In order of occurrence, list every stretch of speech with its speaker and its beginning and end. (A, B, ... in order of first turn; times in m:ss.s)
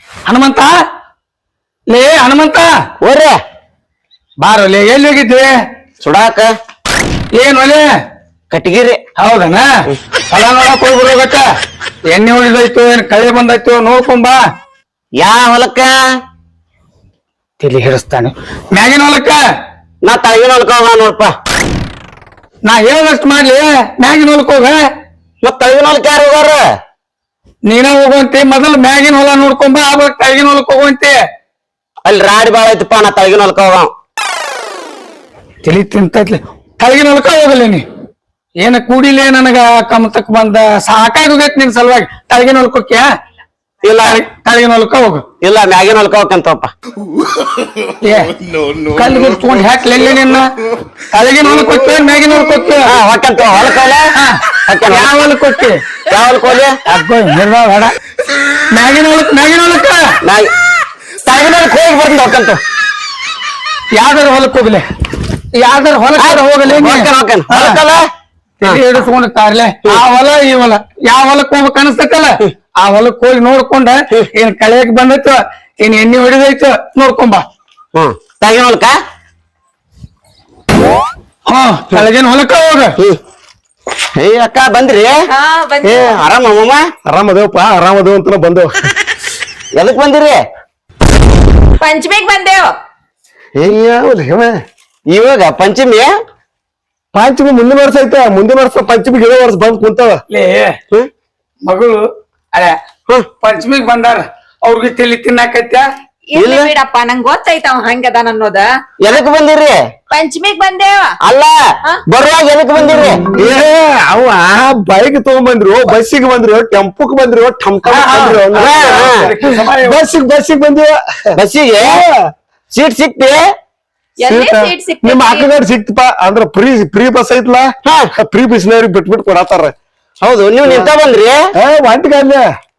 0:00.3-0:00.7 A
0:01.9-0:02.7 A
0:03.0-0:03.4 B
0:04.4-0:05.5 A
0:06.0-0:06.5 B
0:07.4-0:07.9 A
0:08.5-0:09.0 B
0:09.2-0:09.7 A
0:10.3-0:11.5 A
0:12.1-0:14.4 A
0:15.2-0:15.9 B
0:17.6-0:19.4 A
0:20.0-0:21.3 B
0:22.7-0:24.8 A
0:25.4-0:26.6 B
0:27.7-0:31.2 A
0:32.0-0:33.9 B
0:35.6-0:37.9 A
0:38.6-0:43.1 A
0:43.8-0:44.2 B
0:44.0-0:45.2 A
0:45.4-0:46.7 B
0:48.0-0:48.4 A
0:48.9-0:50.5 A
0:51.1-0:52.9 A
0:52.9-0:54.1 B
0:54.2-0:55.8 A
0:54.7-0:55.1 B
0:56.1-0:56.8 B
0:56.9-0:57.9 A
0:58.7-1:00.1 A
1:00.2-1:00.5 B
1:01.2-1:02.6 B
1:03.9-1:04.9 A
1:05.5-1:07.8 A
1:06.2-1:08.1 B
1:08.6-1:17.5 A
1:18.0-1:19.0 B
1:21.5-1:23.0 A
1:24.2-1:25.1 B
1:25.3-1:26.2 C
1:25.8-1:26.8 B
1:27.0-1:28.7 D
1:29.8-1:30.4 B
1:31.8-1:32.7 C
1:33.6-1:34.6 D
1:35.1-1:36.1 B
1:37.1-1:40.2 D
1:40.3-1:40.8 A
1:41.6-1:42.0 A
1:43.4-1:45.8 A
1:46.3-1:48.7 C
1:46.4-1:46.7 B
1:49.0-1:49.8 B
1:50.1-1:51.2 C
1:51.2-1:51.6 B
1:52.1-1:53.6 B
1:53.3-2:01.0 D
1:57.8-2:00.1 A
1:58.5-1:59.3 B
2:01.4-2:02.0 B
2:01.8-2:02.1 D
2:02.7-2:03.4 B
2:04.2-2:05.5 C
2:04.3-2:09.7 D
2:10.2-2:11.4 B
2:11.5-2:12.5 D